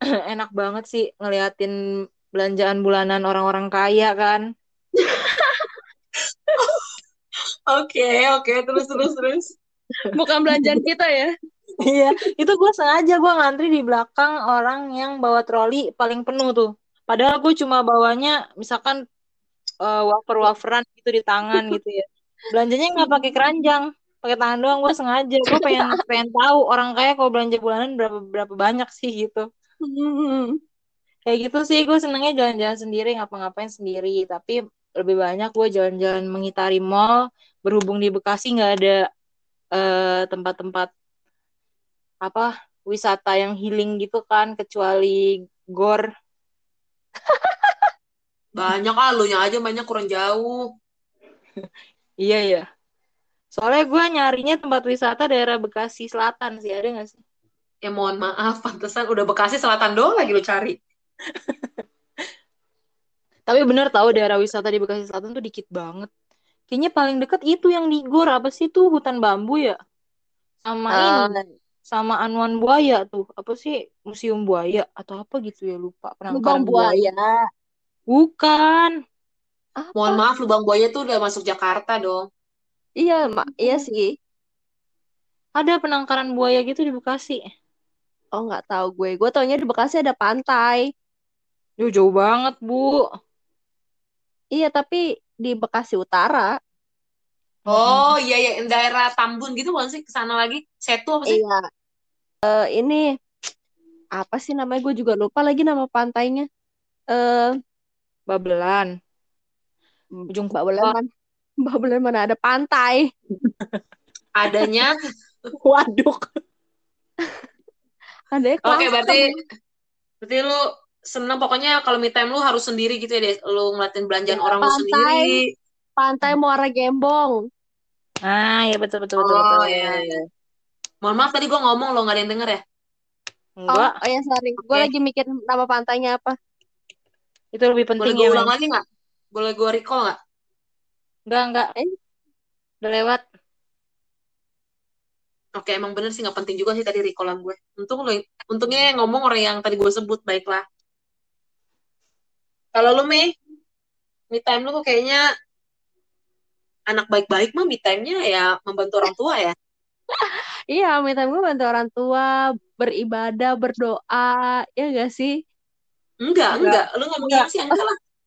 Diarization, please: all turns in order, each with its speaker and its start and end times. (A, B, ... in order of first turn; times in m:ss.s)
0:00.3-0:01.7 A
0:02.4-0:04.4 A
0:05.0-0:05.7 B
0:07.7-0:09.6 C
0:10.0-0:10.8 A
0:10.2-0:11.3 B
0:11.8-0:19.0 A
0:19.9-0:29.5 A
0:23.0-0:23.4 B
0:25.5-0:25.9 B
0:29.8-0:30.6 B
0:31.3-0:39.0 A
0:39.8-0:40.9 A
0:42.2-0:46.0 A
0:48.6-0:50.6 C
0:52.2-0:52.6 A
0:53.6-0:57.2 A
0:57.8-1:00.8 C
1:03.5-1:06.1 A
1:06.7-1:09.8 A
1:10.6-1:11.3 A
1:10.9-1:11.4 B
1:11.9-1:17.1 A
1:16.3-1:17.3 B
1:18.1-1:18.9 A
1:19.8-1:20.2 B
1:20.0-1:22.3 C
1:23.0-1:24.1 B
1:25.6-1:27.4 A
1:28.4-1:30.9 B
1:31.8-1:33.0 A
1:34.5-1:36.5 B
1:37.7-1:38.0 A
1:37.7-1:41.4 C
1:41.3-1:41.6 B
1:42.4-1:43.1 B
1:44.2-1:46.5 B
1:47.1-1:47.5 B
1:48.3-1:48.9 A
1:50.2-1:51.0 B
1:51.7-1:53.1 B
1:53.4-1:53.7 A
1:54.4-1:54.9 C
1:55.6-1:56.2 A
1:58.3-1:59.3 B
1:58.6-1:59.3 C
2:00.2-2:05.4 C
2:04.3-2:05.4 B
2:06.0-2:07.4 B
2:08.3-2:10.0 A
2:09.2-2:10.1 C
2:11.0-2:12.6 C
2:13.6-2:13.9 A
2:13.7-2:16.4 B
2:17.6-2:18.5 A
2:18.0-2:18.8 C
2:19.3-2:20.2 C
2:21.3-2:21.7 A
2:22.8-2:23.2 A
2:25.6-2:30.6 C
2:32.8-2:33.3 C
2:34.3-2:35.2 C
2:36.9-2:39.5 C
2:40.1-2:45.3 B
2:46.3-2:47.9 C
2:46.6-2:47.5 A